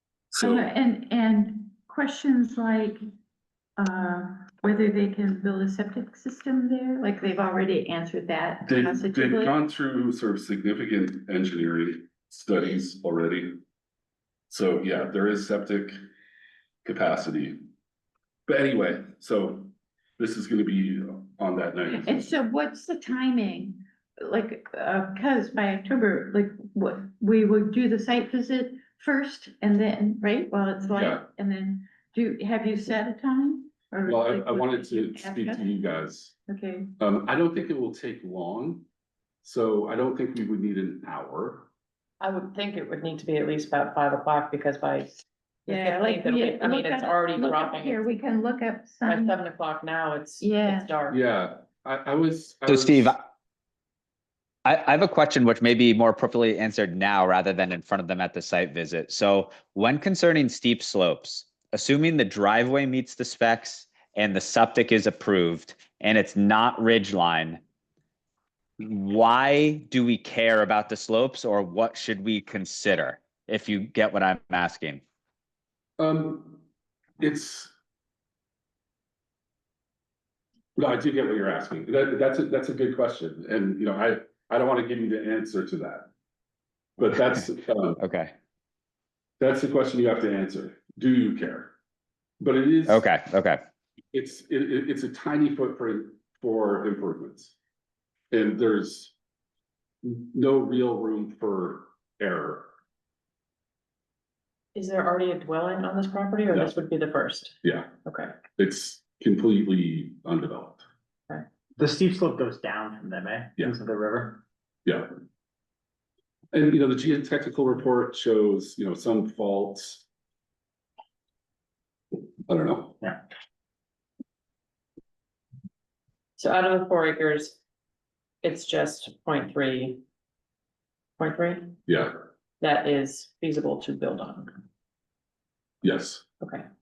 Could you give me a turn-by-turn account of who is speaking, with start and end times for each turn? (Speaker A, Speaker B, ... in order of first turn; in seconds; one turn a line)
Speaker A: 0.3-0.7
Speaker B: 0.4-3.0
Speaker B: 3.8-9.5
Speaker A: 8.7-13.6
Speaker A: 14.5-16.0
Speaker A: 16.8-17.6
Speaker A: 18.5-22.3
Speaker B: 22.0-35.7
Speaker A: 30.9-31.2
Speaker A: 34.0-36.4
Speaker B: 36.5-36.9
Speaker A: 37.0-38.8
Speaker A: 39.4-41.7
Speaker C: 42.2-48.0
Speaker B: 45.7-49.4
Speaker C: 49.0-51.2
Speaker B: 50.4-50.9
Speaker A: 51.1-53.2
Speaker D: 52.6-53.2
Speaker D: 54.6-67.6
Speaker D: 68.8-75.0
Speaker A: 76.0-76.6
Speaker A: 77.2-77.7
Speaker A: 80.8-86.1
Speaker A: 87.0-88.0
Speaker D: 88.0-88.3
Speaker A: 89.4-91.7
Speaker A: 92.4-93.0
Speaker D: 92.9-93.6
Speaker A: 94.1-97.5
Speaker A: 98.3-99.1
Speaker A: 100.0-102.7
Speaker C: 104.7-108.3
Speaker A: 106.5-106.7
Speaker A: 107.6-107.9
Speaker A: 108.6-110.8
Speaker E: 111.8-114.4
Speaker A: 114.8-115.1
Speaker A: 116.5-120.0
Speaker A: 122.5-123.0
Speaker C: 126.4-127.6
Speaker C: 128.4-130.0
Speaker C: 131.2-131.7
Speaker A: 131.9-132.1
Speaker C: 132.6-134.5
Speaker A: 135.8-136.2
Speaker C: 136.4-136.7